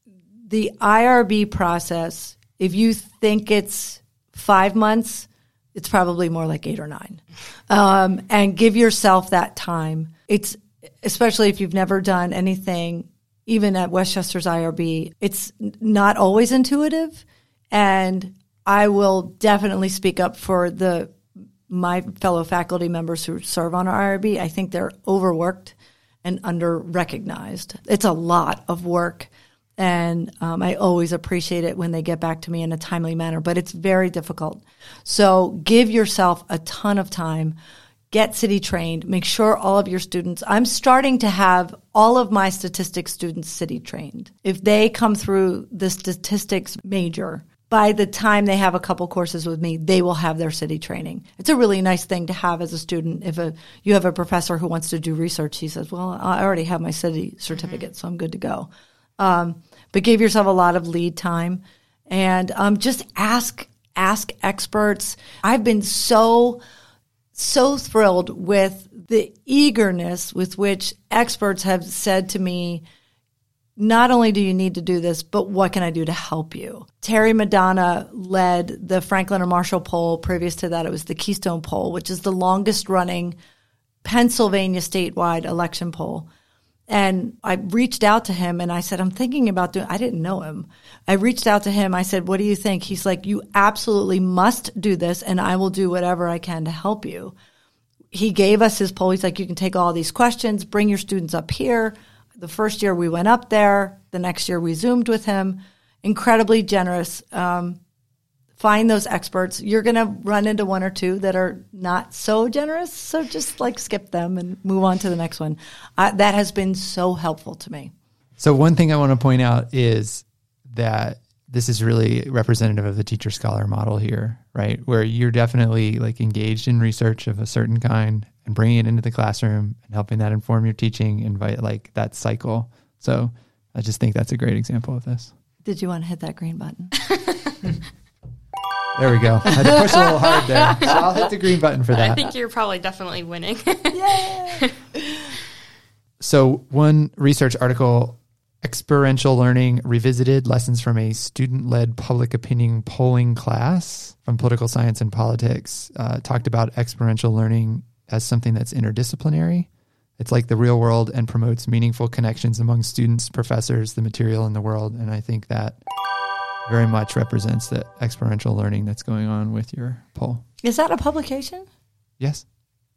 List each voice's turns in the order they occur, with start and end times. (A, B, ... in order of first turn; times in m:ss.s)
0:00.5-0:21.2 A
0:21.7-0:37.6 A
0:38.1-0:58.7 A
0:57.5-0:57.8 B
0:59.2-1:06.6 A
1:07.4-1:12.8 A
1:13.8-1:23.4 A
1:24.0-1:26.3 A
1:26.9-1:37.3 A
1:38.1-1:47.8 A
1:48.6-1:57.9 A
1:58.4-2:15.3 C
2:15.6-2:17.0 A
2:19.0-2:22.3 C
2:19.7-2:19.9 A
2:21.9-2:24.7 B
2:23.9-2:24.7 A
2:26.2-2:45.8 C
2:46.7-2:50.4 C
2:50.6-2:51.7 A
2:52.2-2:52.4 C